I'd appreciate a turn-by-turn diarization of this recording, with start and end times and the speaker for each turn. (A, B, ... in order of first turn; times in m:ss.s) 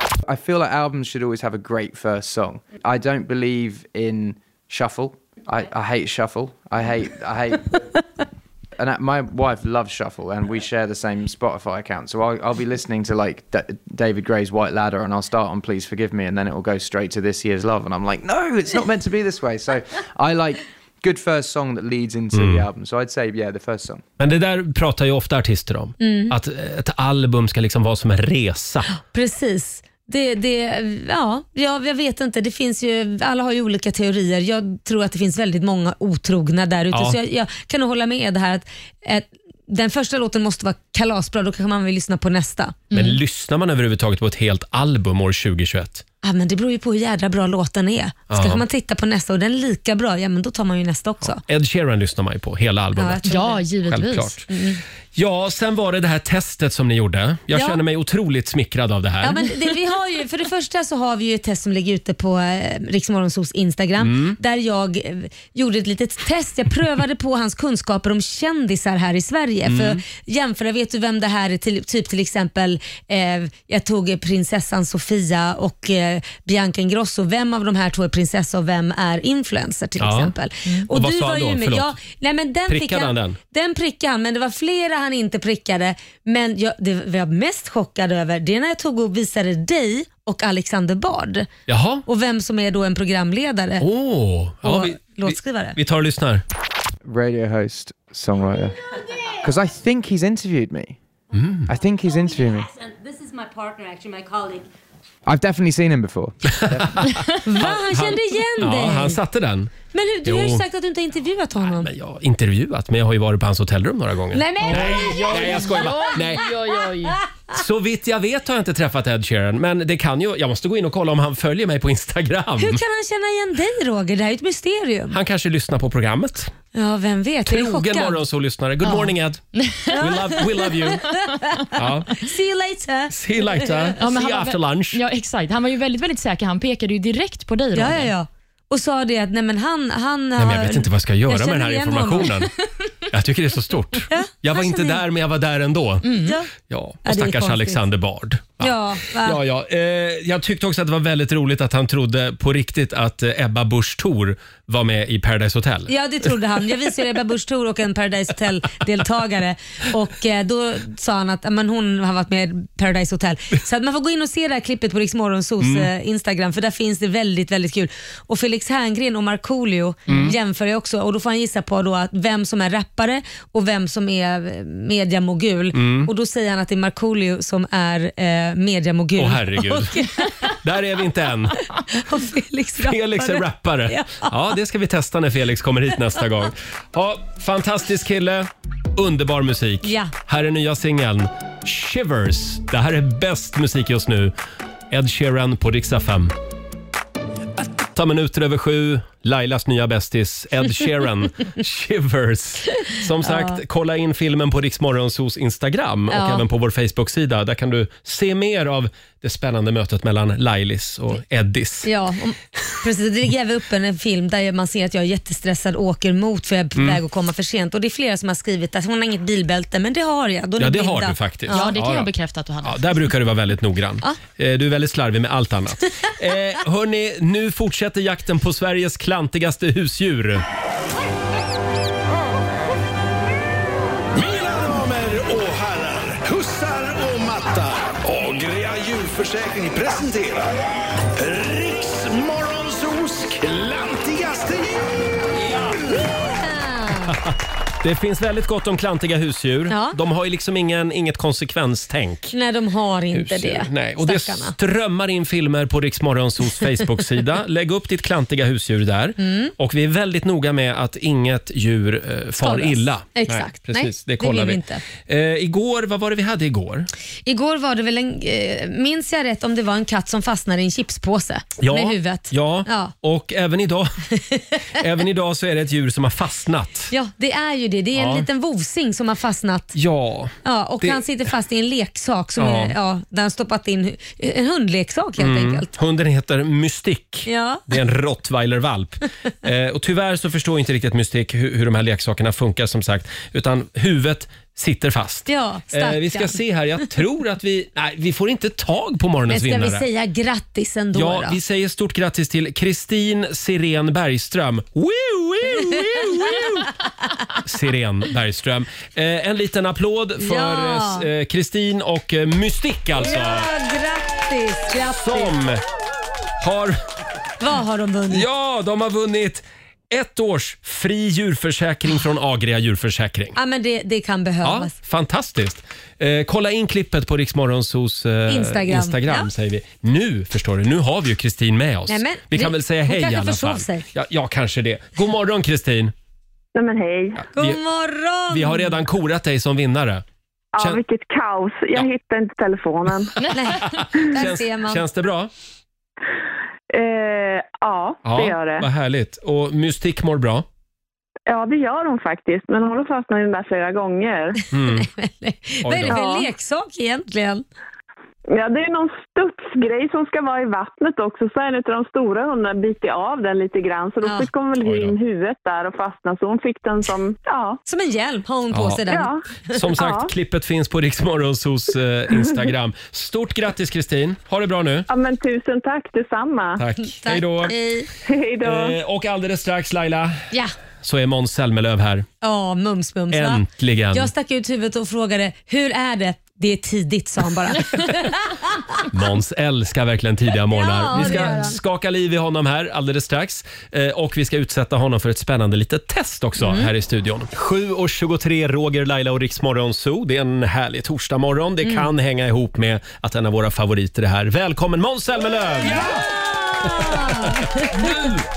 0:00.2-0:07.8 A
0:08.8-0:24.0 A
0:22.3-0:22.6 B
0:24.2-0:28.9 B
0:26.0-0:26.4 C
0:29.0-0:42.8 C
0:36.9-0:37.2 B
0:42.9-0:43.2 D
0:42.9-0:46.0 B
0:46.2-0:51.4 C
0:48.3-0:48.6 B
0:51.4-0:53.2 B
0:53.0-0:53.6 C
0:53.3-0:54.4 D
0:53.8-0:54.5 B
0:54.5-0:54.8 C
0:55.1-0:59.4 B
0:57.5-0:57.8 C
0:59.2-1:31.5 C
1:04.0-1:04.4 B
1:09.6-1:10.0 B
1:20.0-1:20.3 B
1:20.9-1:22.0 B
1:22.7-1:23.4 B
1:31.7-1:32.0 B
1:32.0-1:33.8 C
1:33.8-1:36.4 B
1:34.6-1:35.8 C
1:37.0-1:41.0 A
1:41.3-1:41.7 B
1:41.7-1:42.7 A
1:41.7-1:44.7 E
1:45.2-1:47.1 A
1:46.5-1:49.7 B
1:47.4-1:49.2 C
1:49.9-1:51.9 C
1:50.2-1:50.6 B
1:51.7-1:56.6 B
1:54.3-1:56.1 C
1:54.6-1:57.2 D
1:57.5-2:02.8 B
2:02.6-2:05.2 C
2:05.1-2:06.5 B
2:06.7-2:08.2 C
2:07.4-2:11.1 B
2:08.8-2:10.0 D
2:09.9-2:14.0 C
2:11.7-2:12.2 B
2:13.1-2:15.0 B
2:14.0-2:18.1 D
2:17.7-2:22.3 C
2:20.4-2:22.5 B
2:23.1-2:35.9 B
2:24.1-2:25.0 C
2:26.0-2:26.3 D
2:26.2-2:26.5 C
2:27.0-2:27.8 C
2:28.6-2:29.4 C
2:35.9-3:00.5 C
2:45.6-2:45.9 B
2:50.1-2:50.4 B
2:55.7-2:56.1 B
2:59.2-3:01.6 B
3:01.9-3:04.3 C
3:02.8-3:14.3 B
3:09.8-3:10.1 C
3:14.9-3:16.3 B
3:17.9-3:31.9 B
3:23.2-3:23.6 C
3:26.1-3:26.4 C
3:31.8-3:41.7 C
3:36.8-3:37.0 B
3:40.6-3:42.1 B
3:41.5-3:43.1 D
3:42.6-3:50.4 B
3:54.1-4:04.9 F
4:06.3-4:07.1 C
4:07.1-4:12.3 B
4:09.7-4:10.0 C
4:12.3-4:14.5 C
4:13.1-4:26.9 B
4:19.2-4:19.5 C
4:22.4-4:24.8 C
4:27.2-4:32.9 C
4:31.6-4:33.9 B
4:34.7-4:36.9 B
4:36.9-4:39.8 C
4:37.9-4:38.3 B
4:39.7-4:41.0 B
4:40.4-4:45.7 C
4:42.4-4:42.8 B
4:45.2-4:59.8 B
4:47.2-4:47.6 C
4:55.3-4:56.4 C
4:59.3-5:01.4 C
5:00.9-5:06.7 B
5:07.4-5:13.5 B
5:10.2-5:11.0 C
5:13.0-5:15.3 C
5:14.8-5:15.6 B
5:16.4-5:16.8 B
5:17.4-5:18.3 C
5:18.1-5:23.4 B
5:23.4-5:24.7 C
5:24.4-5:35.9 B
5:28.3-5:29.3 C
5:31.9-5:33.8 C
5:36.5-5:37.2 G
5:37.2-5:37.6 B
5:37.3-5:38.8 C
5:38.3-5:40.0 B
5:40.5-5:43.2 G
5:43.3-5:44.8 C
5:43.6-5:45.3 B
5:46.7-5:48.7 G
5:48.0-5:50.4 B
5:51.3-5:54.4 G
5:54.5-5:54.9 B
5:54.6-5:57.4 C
5:55.6-5:56.0 B
5:55.9-5:56.3 G
5:58.3-6:07.6 G
6:04.0-6:04.3 C
6:04.6-6:05.0 B
6:07.6-6:09.7 C
6:08.5-6:08.8 B
6:08.9-6:09.2 G
6:09.5-6:14.9 B
6:09.8-6:10.1 G
6:14.9-6:16.6 G
6:16.6-6:17.6 B
6:16.9-6:17.9 C
6:18.0-6:18.8 G
6:18.4-6:20.3 B
6:20.8-6:22.0 B
6:22.2-6:28.8 C
6:23.1-6:24.1 B
6:28.9-6:45.9 B
6:30.5-6:31.6 C
6:36.4-6:36.7 C
6:41.6-6:41.9 C
6:45.7-6:47.9 C
6:46.6-6:48.1 B